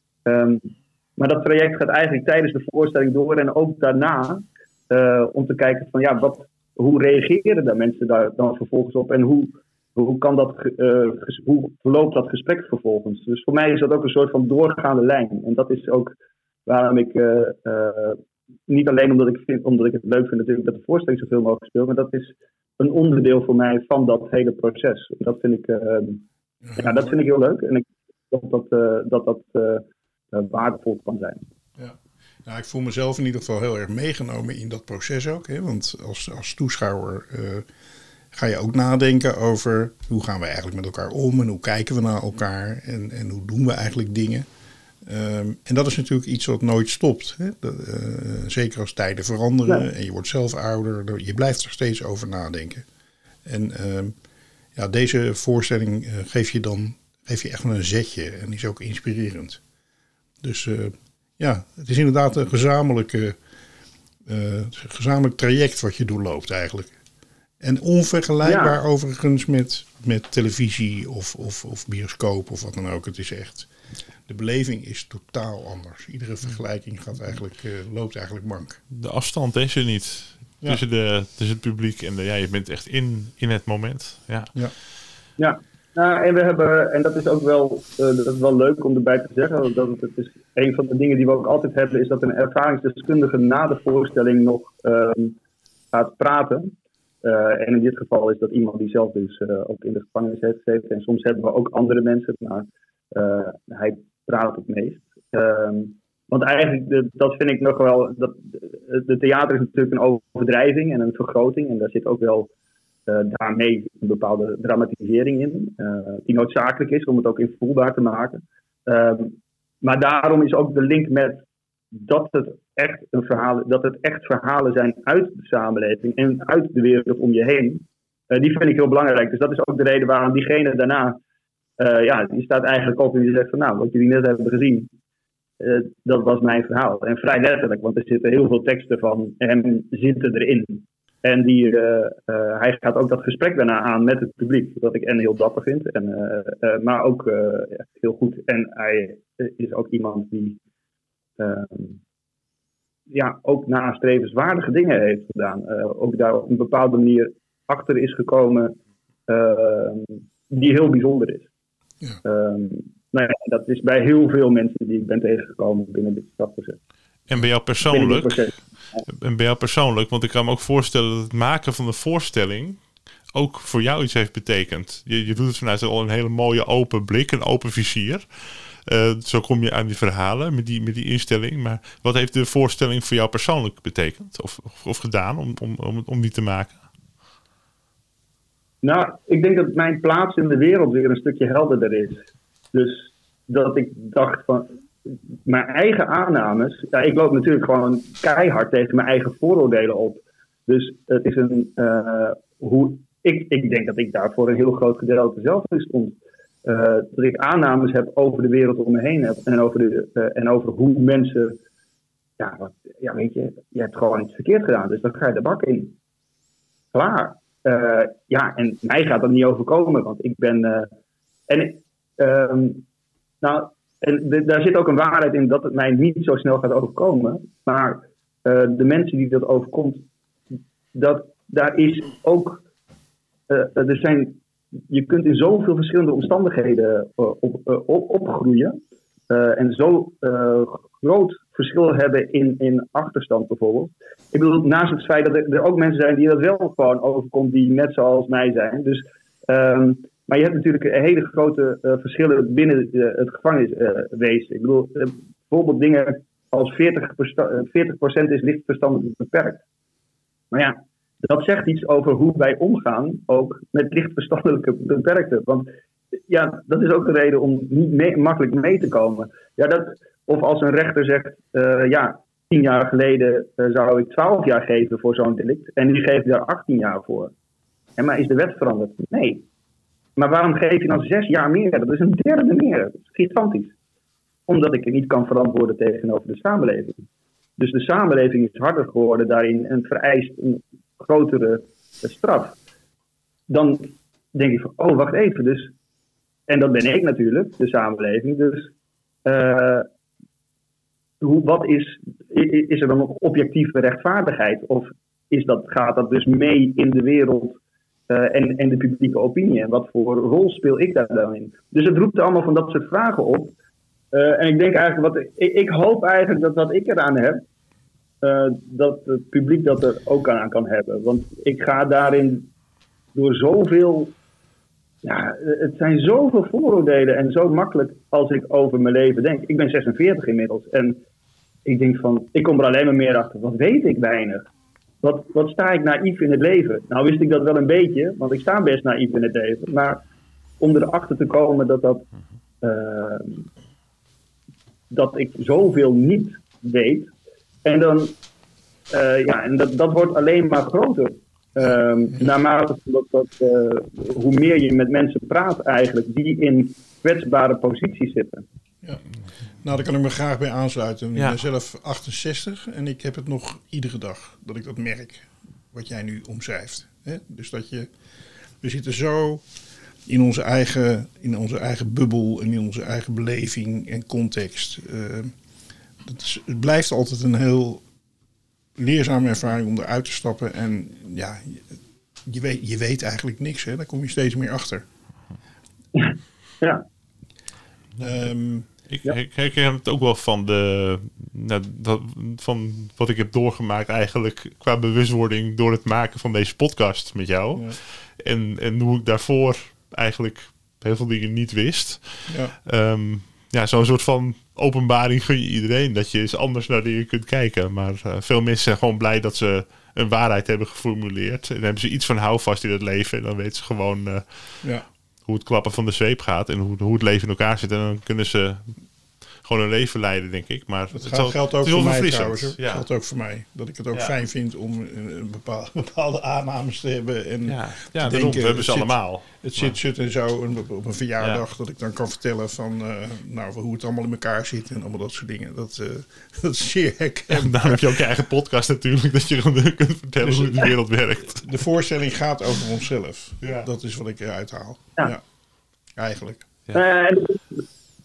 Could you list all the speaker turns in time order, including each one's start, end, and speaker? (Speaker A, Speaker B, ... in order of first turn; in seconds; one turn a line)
Speaker A: 0.2-16.1
Speaker A: 16.6-26.2
Speaker B: 26.7-27.1
Speaker A: 26.8-31.4
Speaker B: 31.8-37.6
Speaker B: 38.3-44.5
Speaker B: 45.0-52.8
Speaker B: 53.5-54.1
Speaker B: 54.7-59.6
Speaker B: 60.4-63.4
Speaker B: 64.2-67.0
Speaker B: 67.6-73.7
Speaker A: 68.4-68.8
Speaker B: 74.3-78.8
Speaker C: 78.9-84.5
Speaker A: 85.4-95.4
Speaker A: 95.9-96.7
Speaker A: 97.2-112.5
Speaker A: 113.1-131.2
Speaker A: 131.8-134.9
Speaker A: 135.6-150.6
Speaker A: 151.4-152.0
Speaker A: 153.1-158.8
Speaker A: 159.3-161.5
Speaker A: 162.2-166.8
Speaker C: 167.3-168.5
Speaker A: 167.9-169.1
Speaker C: 169.1-186.8
Speaker A: 188.8-211.6
Speaker A: 212.4-215.9
Speaker A: 216.9-220.9
Speaker A: 221.5-222.8
Speaker A: 223.4-230.0
Speaker A: 230.9-232.6
Speaker A: 233.5-238.8
Speaker A: 239.3-259.6
Speaker A: 260.5-265.7
Speaker A: 266.3-277.3
Speaker A: 278.0-279.4
Speaker A: 280.1-283.7
Speaker A: 284.5-287.0
Speaker A: 287.6-292.6
Speaker A: 293.5-295.7
Speaker A: 296.5-298.7
Speaker A: 299.2-299.9
Speaker A: 301.2-313.5
Speaker A: 314.1-317.4
Speaker A: 318.2-322.5
Speaker A: 323.1-324.1
Speaker A: 325.0-331.0
Speaker A: 331.6-334.4
Speaker A: 335.0-340.0
Speaker A: 340.6-342.1
Speaker A: 342.6-343.5
Speaker A: 344.9-347.1
Speaker A: 347.6-348.2
Speaker A: 348.9-358.4
Speaker B: 359.6-367.9
Speaker B: 368.6-369.4
Speaker B: 370.1-375.3
Speaker B: 376.0-377.8
Speaker B: 378.8-384.8
Speaker A: 385.9-386.8
Speaker B: 388.0-388.7
Speaker C: 388.9-422.9
Speaker B: 402.3-402.6
Speaker B: 420.9-438.0
Speaker C: 427.4-429.8
Speaker C: 437.3-441.5
Speaker B: 440.2-440.7
Speaker B: 441.3-445.2
Speaker C: 443.4-443.7
Speaker B: 445.9-446.4
Speaker A: 446.7-447.6